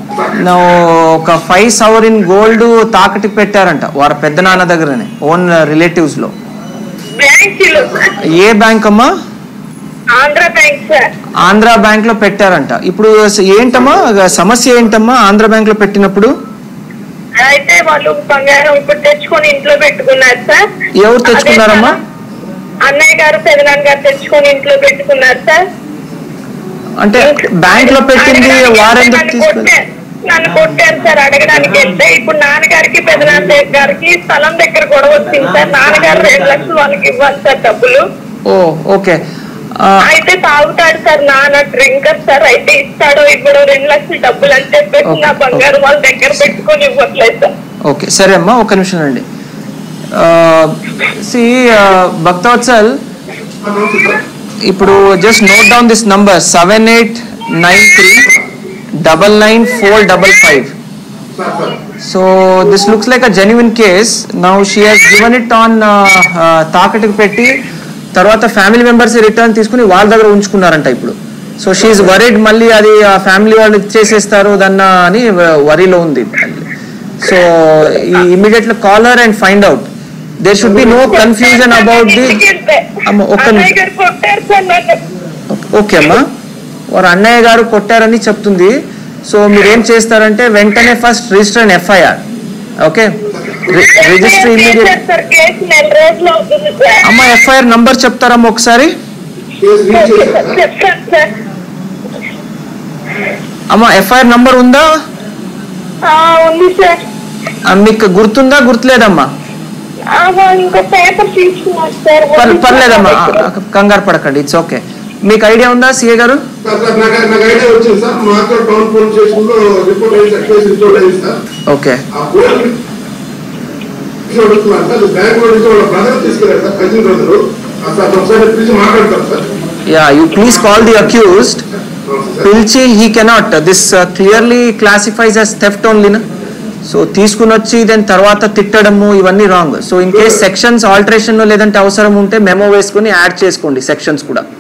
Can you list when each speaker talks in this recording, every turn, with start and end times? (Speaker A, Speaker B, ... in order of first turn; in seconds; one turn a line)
Speaker A: 0.3-6.3
Speaker B: 7.2-8.2
Speaker A: 8.2-9.1
Speaker B: 10.2-11.0
Speaker A: 11.4-16.3
Speaker B: 17.4-20.6
Speaker A: 21.0-21.9
Speaker B: 21.3-22.0
Speaker B: 22.9-25.6
Speaker A: 27.0-29.7
Speaker B: 27.3-38.0
Speaker A: 38.5-39.2
Speaker A: 39.8-40.1
Speaker B: 40.0-47.5
Speaker A: 45.1-45.6
Speaker A: 47.9-49.2
Speaker A: 50.1-53.0
Speaker C: 53.6-54.2
Speaker A: 54.6-58.3
Speaker A: 59.0-60.7
Speaker C: 61.4-61.8
Speaker A: 62.0-67.5
Speaker A: 68.2-76.7
Speaker A: 77.2-79.9
Speaker A: 80.4-82.4
Speaker B: 80.6-85.0
Speaker A: 83.0-83.7
Speaker A: 85.5-86.3
Speaker A: 86.9-92.2
Speaker A: 92.8-93.1
Speaker A: 93.7-95.0
Speaker B: 93.7-97.2
Speaker A: 97.0-98.9
Speaker C: 99.6-100.6
Speaker B: 99.9-101.3
Speaker A: 103.7-104.9
Speaker B: 106.0-107.0
Speaker A: 107.7-109.3
Speaker B: 110.1-113.5
Speaker A: 112.4-116.4
Speaker C: 116.6-121.4
Speaker A: 121.7-122.0
Speaker C: 122.1-122.8
Speaker C: 124.3-129.5
Speaker A: 129.9-131.6
Speaker C: 132.1-132.5
Speaker A: 132.4-136.2
Speaker A: 136.8-144.4
Speaker C: 140.1-140.4